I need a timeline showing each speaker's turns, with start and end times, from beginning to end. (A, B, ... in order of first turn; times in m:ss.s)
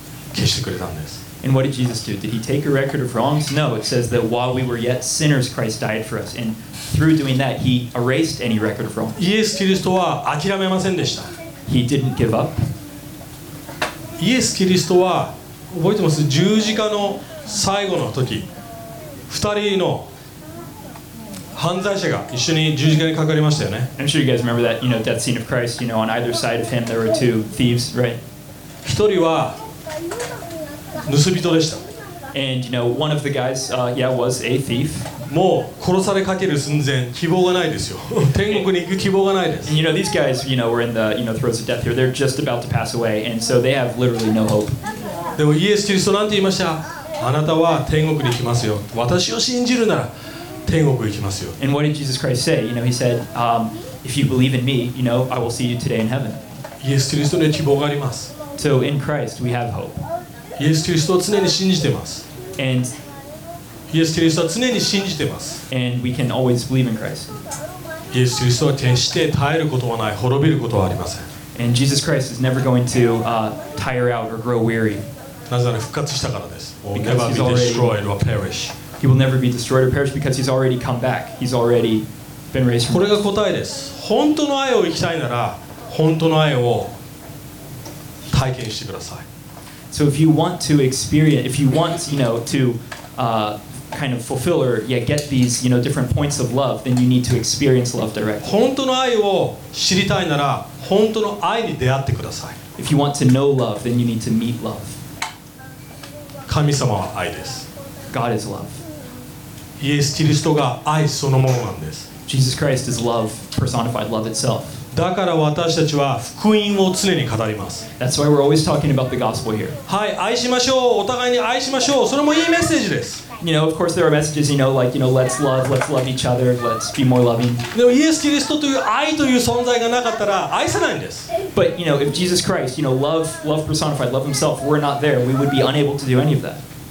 0:00.3-0:01.2 A
0:01.4-0:09.2 B
0:09.2-0:11.3 A
0:11.7-0:12.7 B
0:14.2-0:18.5 A
0:19.3-0:20.1 A
0:21.6-0:23.9 A
0:24.0-0:28.2 B
0:28.8-0:29.6 A
0:31.0-0:31.8 A
0:32.3-0:35.1 B
0:35.3-0:39.7 A
0:39.6-0:44.8 B
0:45.4-0:50.1 A
0:50.7-0:51.6 A
0:51.6-0:56.4 B
0:56.8-0:58.3 A
0:58.6-1:00.0 B
1:00.6-1:02.2 A
1:02.6-1:02.9 B
1:03.9-1:05.6 A
1:05.7-1:07.3 B
1:08.1-1:11.3 A
1:11.6-1:15.0 B
1:15.5-1:18.8 A
1:17.0-1:18.1 B
1:19.0-1:23.1 B
1:22.9-1:26.9 A
1:28.3-1:29.3 A
1:29.9-1:38.5 B
1:38.4-1:42.6 A
1:42.8-1:45.0 B
1:46.5-1:47.7 A
1:48.1-1:48.8 B
1:49.8-1:52.1 A
1:52.3-1:54.8 B
1:54.9-1:57.9 A
1:58.0-1:59.8 B
1:59.9-2:03.2 A
2:03.4-2:07.6 B
2:07.7-2:11.3 A
2:11.6-2:16.6 B